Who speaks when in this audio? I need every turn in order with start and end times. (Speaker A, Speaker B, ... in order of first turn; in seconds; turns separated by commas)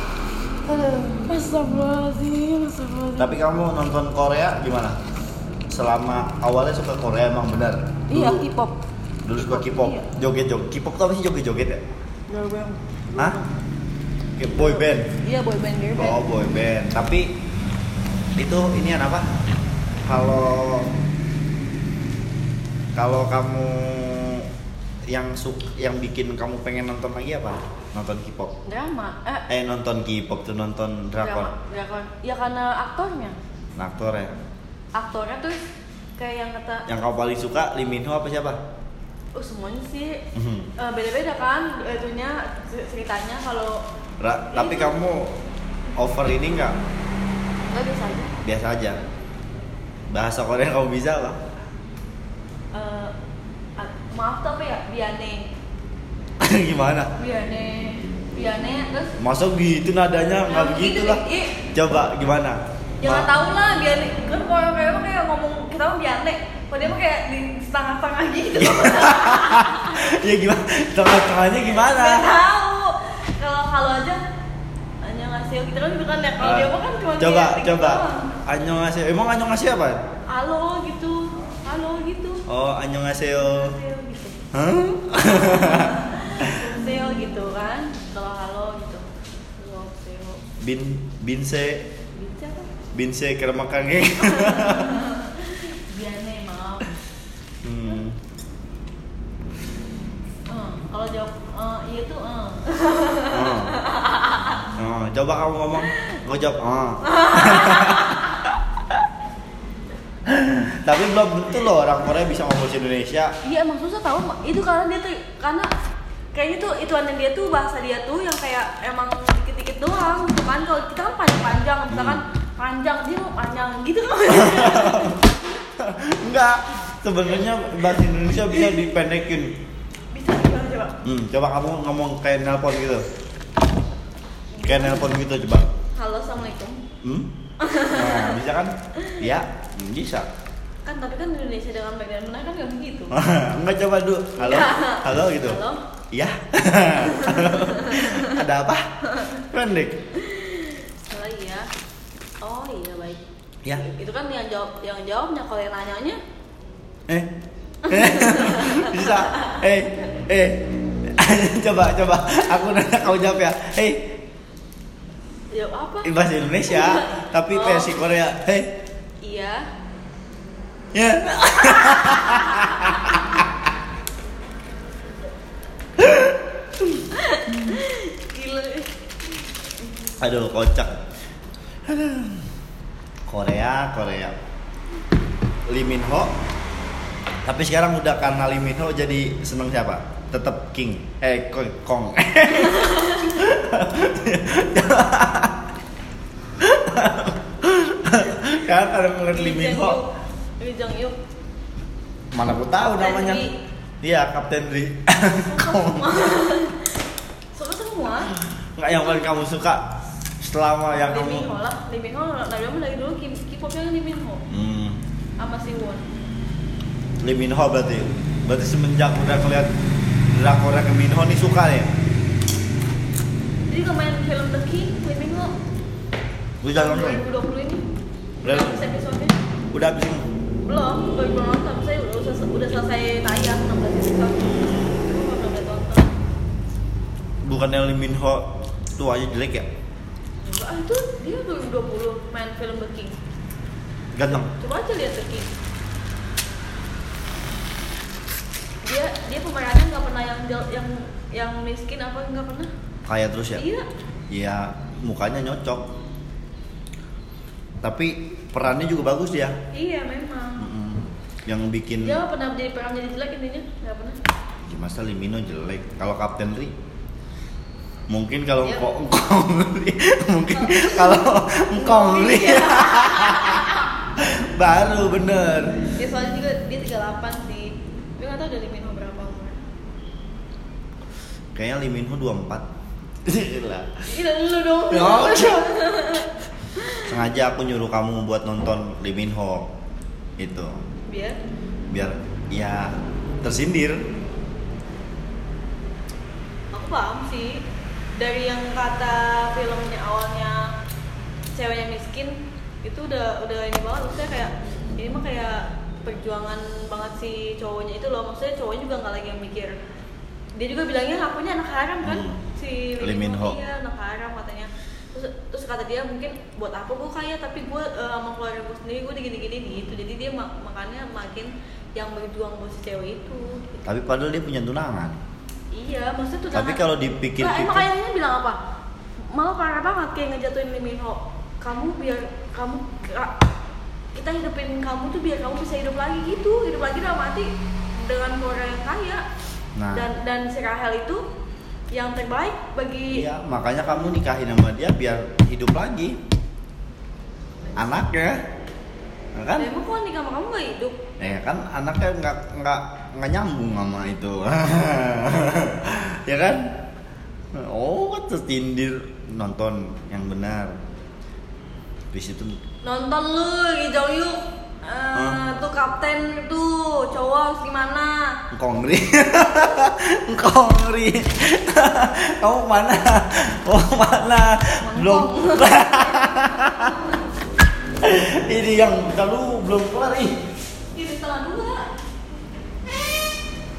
Speaker A: 0.6-3.3, Speaker B: 3.2-5.0, Speaker B: 5.7-8.4, Speaker A: 8.1-8.8, Speaker B: 9.2-11.8, Speaker A: 9.3-10.1, Speaker A: 12.3-13.5, Speaker B: 14.4-15.1, Speaker A: 14.5-16.2, Speaker B: 15.9-17.3, Speaker B: 18.4-19.3, Speaker B: 20.0-20.9, Speaker B: 22.9-24.5, Speaker B: 25.1-28.5, Speaker A: 28.7-29.5, Speaker B: 29.5-31.5, Speaker A: 31.1-33.4, Speaker B: 33.8-34.4, Speaker A: 34.9-35.6, Speaker A: 36.2-36.9, Speaker B: 36.9-38.6, Speaker A: 39.4-40.2, Speaker B: 40.3-40.7, Speaker A: 40.8-43.8, Speaker B: 44.2-45.3, Speaker A: 44.5-44.9, Speaker B: 46.0-46.8, Speaker A: 47.7-48.3, Speaker B: 48.4-49.0, Speaker B: 50.1-51.4, Speaker A: 52.7-53.1, Speaker A: 53.8-55.5, Speaker B: 56.4-57.1, Speaker A: 57.1-59.1, Speaker B: 59.2-63.3, Speaker A: 60.4-61.6, Speaker A: 63.0-70.0, Speaker B: 68.5-72.3, Speaker A: 71.7-74.2, Speaker A: 75.0-78.3, Speaker B: 76.4-80.0, Speaker A: 80.3-82.4, Speaker B: 82.5-83.8, Speaker A: 83.3-84.4, Speaker B: 84.5-86.5, Speaker A: 85.2-89.0, Speaker A: 89.6-90.4, Speaker B: 90.6-91.8, Speaker A: 92.1-92.7, Speaker B: 92.9-95.0, Speaker A: 94.2-96.9, Speaker B: 97.6-98.2, Speaker A: 100.5-104.7, Speaker B: 103.3-103.8, Speaker B: 104.8-108.4, Speaker A: 105.9-106.1, Speaker A: 107.1-108.3, Speaker B: 110.2-113.3, Speaker A: 113.4-115.7, Speaker A: 116.3-125.3, Speaker B: 121.9-122.2, Speaker B: 124.3-125.2, Speaker B: 125.8-129.5, Speaker A: 130.1-131.0, Speaker B: 131.0-133.1, Speaker A: 134.5-135.1, Speaker B: 134.6-135.7, Speaker A: 135.9-136.8, Speaker B: 137.0-137.3, Speaker A: 137.6-138.4, Speaker B: 137.9-140.3, Speaker A: 139.0-139.3, Speaker A: 140.8-143.1, Speaker B: 143.1-145.6, Speaker A: 144.4-145.8, Speaker B: 146.1-148.8, Speaker A: 147.1-148.4, Speaker A: 149.1-149.4, Speaker B: 149.5-150.0, Speaker A: 150.1-151.7, Speaker A: 152.4-156.2, Speaker A: 157.9-159.6, Speaker B: 157.9-164.1, Speaker A: 165.5-166.1, Speaker B: 166.0-168.7, Speaker A: 166.7-168.0, Speaker A: 169.2-169.7, Speaker B: 170.9-173.4, Speaker A: 172.2-172.9, Speaker B: 176.0-176.9, Speaker A: 177.1-178.9, Speaker B: 180.2-180.9, Speaker B: 181.8-182.4, Speaker B: 183.3-184.3, Speaker B: 185.7-186.3, Speaker B: 187.4-195.6, Speaker A: 192.8-193.1, Speaker B: 196.6-200.0, Speaker A: 199.3-200.1, Speaker A: 200.6-201.2, Speaker B: 202.3-203.4, Speaker A: 203.0-203.6, Speaker B: 204.0-206.2, Speaker A: 205.4-206.9, Speaker A: 207.5-209.3, Speaker B: 208.4-209.8, Speaker B: 210.4-211.5, Speaker A: 211.0-214.4, Speaker B: 214.5-215.0, Speaker A: 215.4-216.1, Speaker B: 217.2-219.7, Speaker B: 220.3-221.9, Speaker A: 223.7-225.5, Speaker B: 226.6-227.2, Speaker A: 226.7-227.8, Speaker A: 228.4-229.3, Speaker B: 228.4-228.8, Speaker B: 229.7-230.3, Speaker A: 230.7-236.1, Speaker B: 234.4-235.0, Speaker B: 237.4-239.7, Speaker A: 240.4-243.2, Speaker B: 244.1-244.5, Speaker A: 244.6-245.5, Speaker A: 248.8-252.7, Speaker B: 253.1-253.6, Speaker A: 253.5-253.8, Speaker B: 254.3-255.8, Speaker B: 257.8-259.5, Speaker A: 259.7-260.7, Speaker B: 260.6-262.2, Speaker A: 262.0-264.2, Speaker B: 264.6-266.7, Speaker B: 268.1-275.8, Speaker A: 268.6-268.9, Speaker A: 270.5-273.9, Speaker A: 275.9-279.6, Speaker B: 281.5-282.6, Speaker B: 283.2-283.9, Speaker A: 284.1-287.1, Speaker B: 284.9-285.8, Speaker B: 287.1-289.6, Speaker B: 290.4-290.7, Speaker A: 291.1-291.4, Speaker B: 291.9-292.9, Speaker B: 293.4-294.0, Speaker A: 296.7-297.6, Speaker A: 298.2-300.7, Speaker A: 301.5-309.7, Speaker A: 310.6-323.8, Speaker B: 312.0-312.4, Speaker B: 313.0-313.6, Speaker B: 323.8-325.1, Speaker A: 325.7-326.8, Speaker B: 326.5-327.9, Speaker A: 327.4-328.6, Speaker A: 329.3-333.3, Speaker A: 334.1-337.5, Speaker A: 338.0-339.2, Speaker B: 339.8-340.1, Speaker A: 339.9-341.2, Speaker A: 341.9-343.3, Speaker B: 343.1-346.2, Speaker B: 347.8-348.4, Speaker B: 349.4-349.7, Speaker A: 349.6-351.0, Speaker B: 351.2-356.7, Speaker B: 357.5-360.7, Speaker B: 362.1-362.6, Speaker A: 362.8-368.4, Speaker B: 368.5-377.0, Speaker A: 374.8-377.2, Speaker B: 378.0-380.3, Speaker A: 380.9-381.9